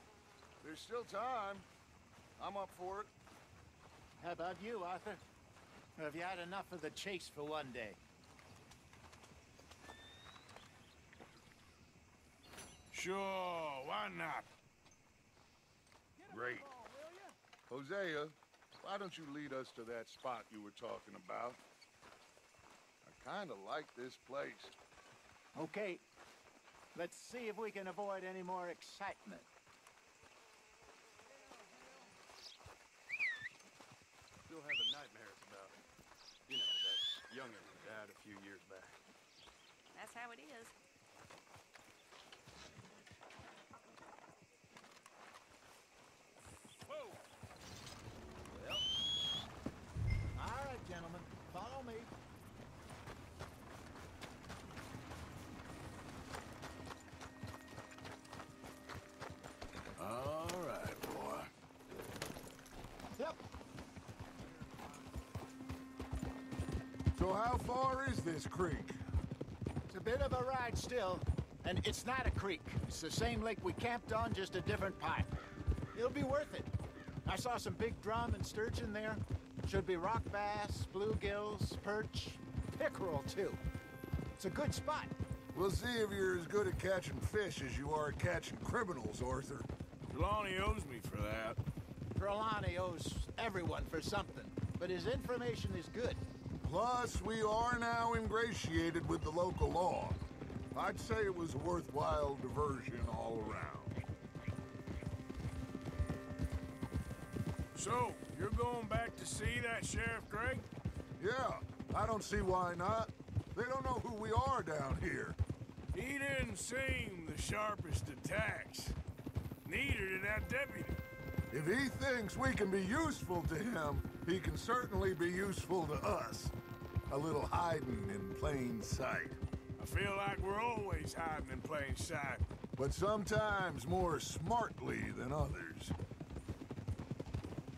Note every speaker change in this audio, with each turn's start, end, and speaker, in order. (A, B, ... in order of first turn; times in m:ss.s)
0:00.6-0:01.6 A
0:02.4-0:03.1 A
0:04.2-0:05.2 B
0:06.0-0:08.0 B
0:12.9-0:14.5 C
0:16.3-0:16.7 A
0:17.7-0:21.6 A
0:23.0-0:24.7 A
0:25.5-0:26.0 B
0:26.9-0:29.5 B
0:34.5-0:35.7 D
0:36.5-0:38.8 D
0:50.4-0:52.1 B
1:00.0-1:01.5 C
1:07.1-1:09.0 A
1:09.9-1:15.3 B
1:15.9-1:16.7 B
1:17.2-1:23.6 B
1:24.4-1:25.1 B
1:25.5-1:29.7 A
1:30.1-1:31.6 C
1:32.2-1:36.2 B
1:36.6-1:44.0 A
1:47.7-1:50.7 C
1:51.2-1:55.4 A
1:55.9-1:59.0 C
1:59.6-2:01.0 C
2:01.5-2:06.5 A
2:07.1-2:09.4 A
2:09.8-2:12.5 C
2:12.8-2:15.9 A